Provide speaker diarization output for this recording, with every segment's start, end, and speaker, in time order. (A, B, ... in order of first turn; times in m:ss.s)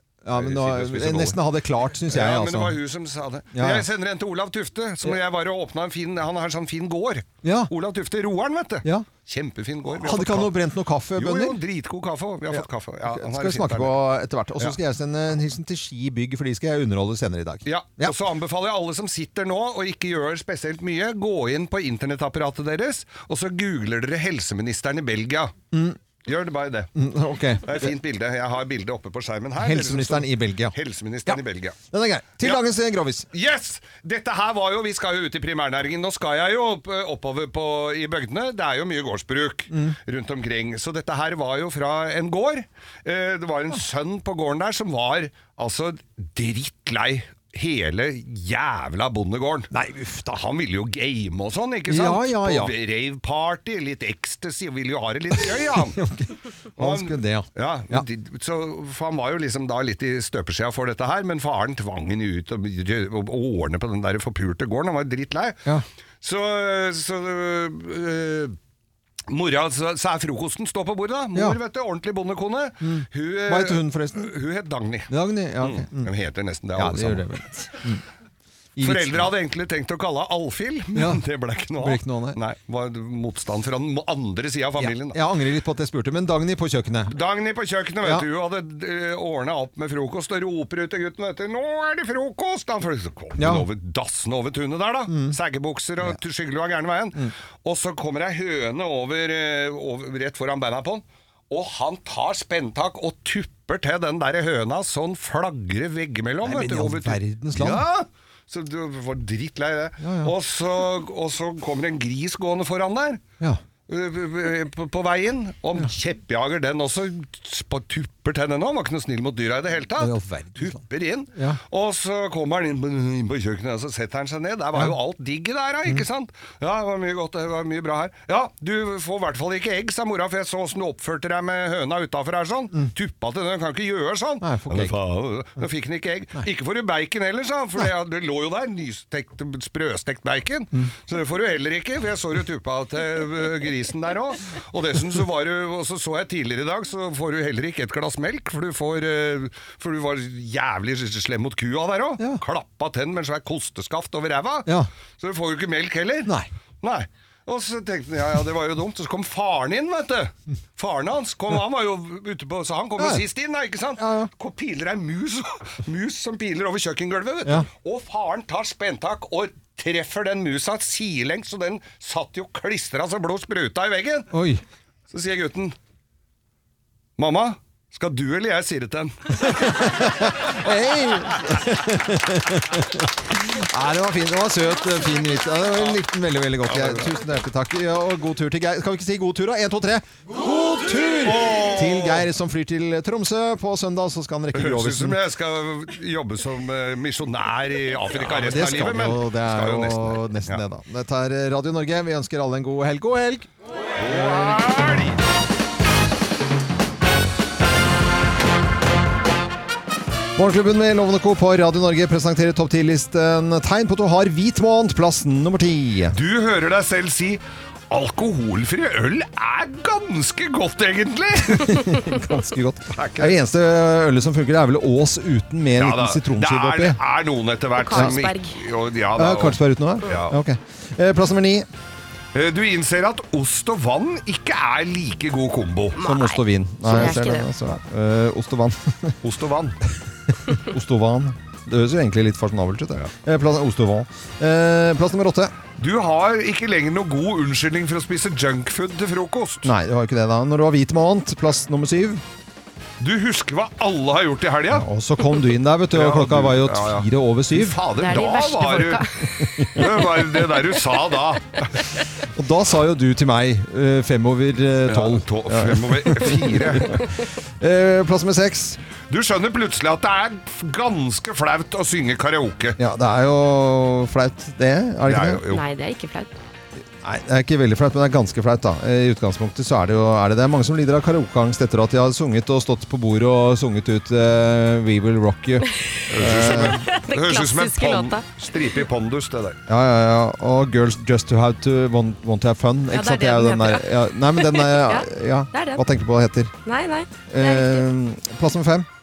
0:00.2-0:02.8 A
0:00.3-0:01.4 B
0:02.1-0:10.5 B
0:03.5-0:03.8 A
0:07.4-0:07.7 A
0:09.9-0:11.6 A
0:11.2-0:14.0 B
0:12.5-0:18.2 A
0:17.6-0:25.5 B
0:25.7-0:26.0 A
0:26.2-0:26.9 B
0:26.9-0:27.9 A
0:27.6-0:31.8 B
0:29.6-0:30.7 A
0:31.9-0:33.3 A
0:33.3-0:49.7 B
0:39.7-0:40.0 A
0:49.7-0:50.3 A
0:50.3-0:56.0 B
0:51.9-0:52.7 A
0:55.4-0:58.0 A
0:56.8-1:05.6 B
1:06.2-1:08.6 B
1:09.3-1:17.3 B
1:12.8-1:14.3 A
1:15.1-1:16.1 A
1:16.7-1:18.0 A
1:18.8-1:19.3 A
1:18.8-1:25.2 B
1:20.9-1:21.2 A
1:21.8-1:22.4 A
1:24.8-1:27.1 A
1:27.1-1:53.2 B
1:33.4-1:33.6 A
1:35.1-1:35.4 A
1:46.4-1:47.8 A
1:50.0-1:50.3 A
1:53.9-2:54.3 B
2:00.0-2:00.8 A
2:01.3-2:01.6 A
2:14.4-2:15.0 A
2:43.0-2:43.2 A
2:44.0-2:44.3 A
2:54.3-2:54.6 A
2:55.1-2:55.7 B
2:57.2-2:59.8 B
2:59.4-3:15.2 A
3:06.6-3:07.1 B
3:11.2-3:12.3 B
3:14.5-3:20.6 B
3:18.3-3:23.5 A
3:24.0-3:25.2 B
3:30.4-3:36.2 A
3:36.1-3:42.0 B
3:41.4-3:47.0 A
3:42.9-3:43.4 B
3:45.8-3:50.4 B
3:47.8-3:48.5 C
3:47.9-3:48.2 A
3:49.2-3:51.7 A
3:52.3-3:56.0 B
3:55.9-3:57.5 C
3:56.0-3:59.1 A
3:59.2-3:59.8 B
4:00.5-4:05.5 A
4:05.8-4:09.7 B
4:09.6-4:12.2 A
4:13.0-4:14.8 B
4:14.7-4:17.8 A
4:15.9-4:19.0 B
4:18.0-4:19.1 C
4:19.4-4:19.9 A
4:19.7-4:21.8 B
4:22.3-4:28.8 A
4:24.9-4:27.0 B
4:29.1-4:32.8 B
4:32.8-4:35.4 A
4:35.0-4:35.6 B
4:35.5-4:36.3 C
4:37.0-4:46.8 A
4:46.1-4:49.6 B
4:46.7-4:48.2 C
4:49.7-4:56.5 A
4:52.9-4:55.8 C
4:56.6-4:57.8 C
4:57.3-4:58.9 A